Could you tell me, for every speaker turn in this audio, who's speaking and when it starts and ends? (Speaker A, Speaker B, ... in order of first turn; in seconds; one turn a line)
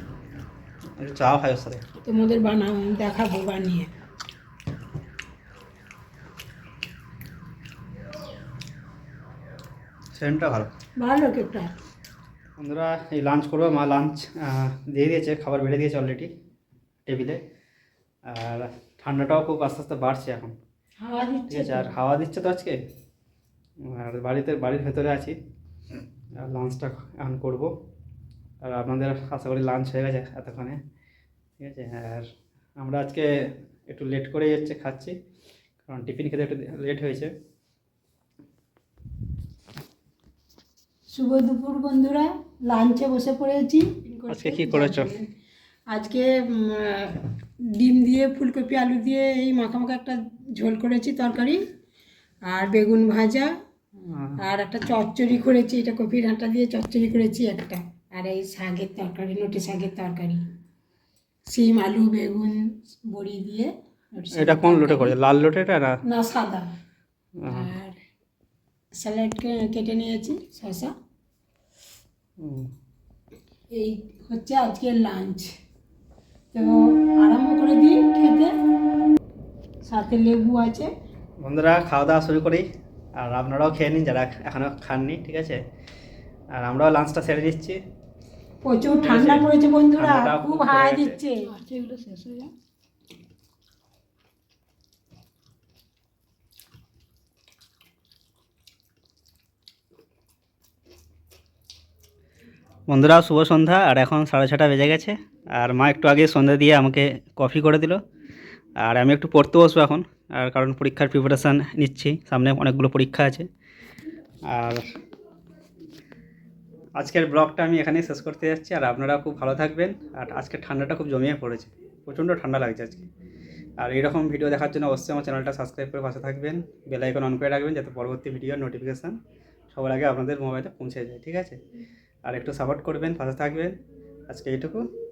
Speaker A: 1.0-1.8
Speaker B: 2.0-3.9
Speaker A: 10.1-10.7
Speaker B: 11.0-11.7
Speaker A: 12.6-16.3
Speaker A: 17.1-17.4
Speaker A: 18.3-20.5
Speaker B: 21.0-21.9
Speaker A: 21.5-22.8
Speaker A: 23.9-25.4
Speaker A: 26.4-27.7
Speaker A: 28.6-30.8
Speaker A: 31.6-33.3
Speaker A: 33.9-35.1
Speaker A: 35.9-37.3
Speaker B: 41.1-45.2
Speaker A: 44.3-45.1
Speaker B: 45.9-51.6
Speaker B: 52.5-53.5
Speaker A: 54.0-54.4
Speaker B: 54.4-60.4
Speaker B: 61.5-65.1
Speaker A: 64.3-66.0
Speaker B: 66.0-66.7
Speaker A: 67.4-67.7
Speaker B: 67.5-68.0
Speaker B: 69.0-70.9
Speaker A: 72.4-72.7
Speaker B: 73.7-75.5
Speaker B: 76.5-78.5
Speaker B: 79.9-80.9
Speaker A: 81.4-82.7
Speaker A: 83.2-85.6
Speaker A: 86.6-87.8
Speaker B: 88.6-92.5
Speaker A: 89.0-91.2
Speaker A: 102.9-108.0
Speaker A: 108.8-113.5
Speaker A: 114.5-114.8
Speaker A: 117.0-123.1
Speaker A: 123.8-129.2
Speaker A: 129.7-131.6
Speaker A: 132.2-133.8
Speaker A: 134.3-134.8